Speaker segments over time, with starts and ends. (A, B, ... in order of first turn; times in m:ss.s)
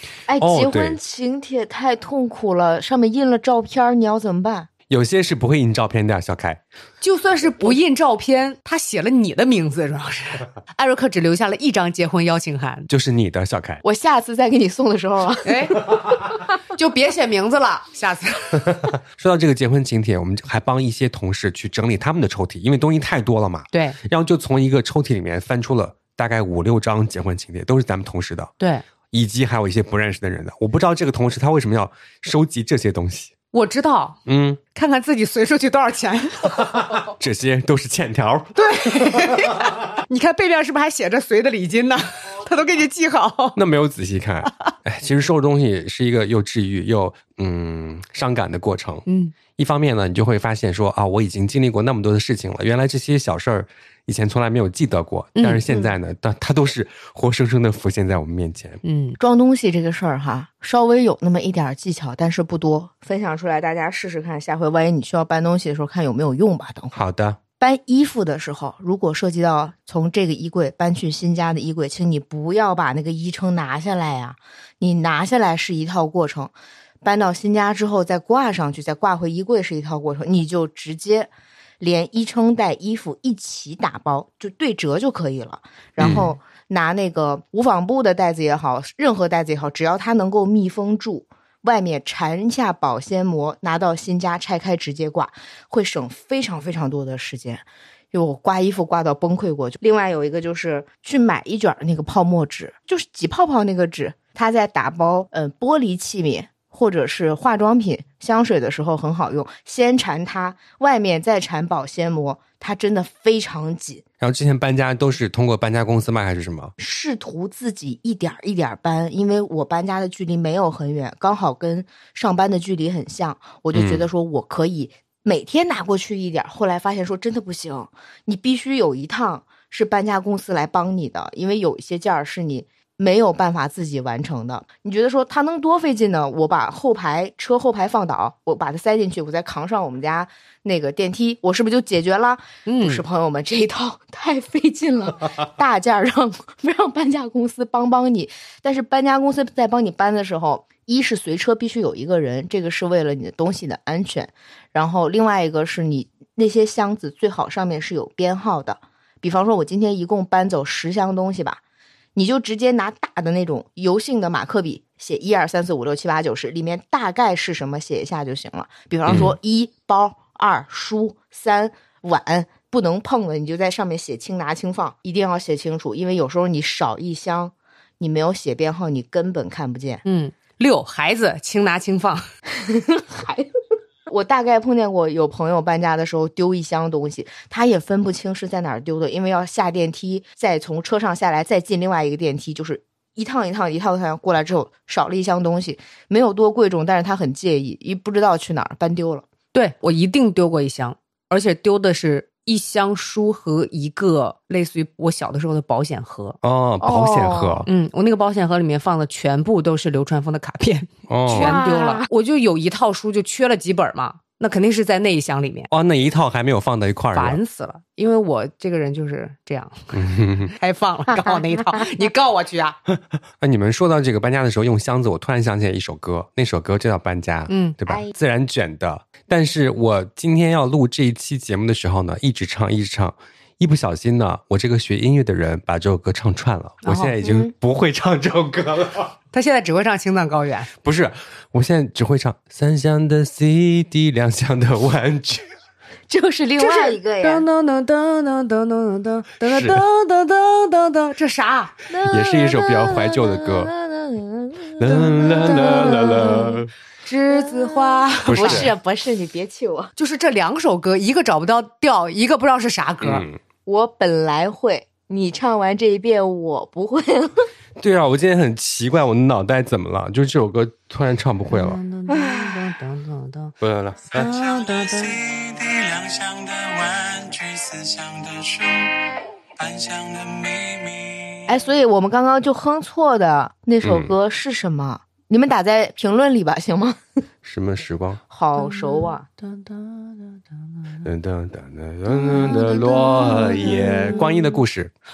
0:00.3-0:04.7 A
0:00.4-0:01.0 B
0:04.9-0:06.6 B
0:07.0-0:12.9 C
0:12.9-0:13.8 B
0:13.8-0:16.0 A
0:15.4-0:16.0 C
0:16.7-0:18.9 C
0:18.8-0:28.5 B
0:23.7-0:24.0 C
0:29.1-0:33.3 B
0:33.5-0:34.2 C
0:34.3-0:34.6 B
0:34.8-0:37.0 C
0:36.7-0:39.6 B
0:38.6-0:43.6 C
0:43.6-0:58.8 B
0:49.1-0:49.3 C
0:55.4-0:55.6 C
0:58.8-0:59.2 C
0:59.2-1:07.0 A
1:07.0-1:07.4 B
1:07.6-1:54.0 A
1:26.0-1:26.3 B
1:54.2-1:56.7 B
1:56.8-2:41.6 A
2:03.7-2:04.1 B
2:22.7-2:23.0 C
2:42.2-3:00.0 A
2:49.1-2:49.3 B
3:00.0-3:02.3 C
3:02.5-3:03.5 A
3:04.1-3:19.2 A
3:19.5-3:26.4 C
3:26.4-3:27.7 B
3:26.8-3:27.6 A
3:27.7-3:35.7 C
3:31.1-3:31.5 B
3:31.3-3:32.1 A
3:35.7-3:37.4 B
3:37.1-3:40.0 C
3:39.9-3:40.5 B
3:40.5-3:42.8 C
3:41.1-3:41.9 A
3:42.9-3:59.2 B
3:47.5-3:47.8 C
3:47.9-3:48.1 A
3:56.8-3:57.2 C
3:57.2-3:57.5 A
3:59.3-4:00.7 C
4:00.8-4:05.5 B
4:06.1-4:07.5 A
4:06.6-4:11.7 C
4:09.4-4:09.8 B
4:11.9-4:16.6 A
4:12.0-4:13.7 B
4:14.8-4:16.7 B
4:15.5-4:16.4 C
4:17.0-4:18.7 C
4:17.3-4:19.9 A
4:18.3-4:18.7 B
4:20.0-4:23.2 C
4:23.0-4:23.4 B
4:23.7-4:27.5 A
4:27.8-4:31.8 B
4:31.5-4:33.5 C
4:32.1-4:32.6 A
4:33.6-4:34.3 B
4:34.1-4:35.2 C
4:34.2-4:39.0 D
4:39.6-4:41.5 D
4:41.5-4:47.0 A
4:43.8-4:44.1 B
4:47.4-4:48.2 B
4:48.3-4:49.3 A
4:48.6-4:51.0 C
4:51.0-4:54.9 B
4:52.2-4:54.2 A
4:53.5-4:54.3 C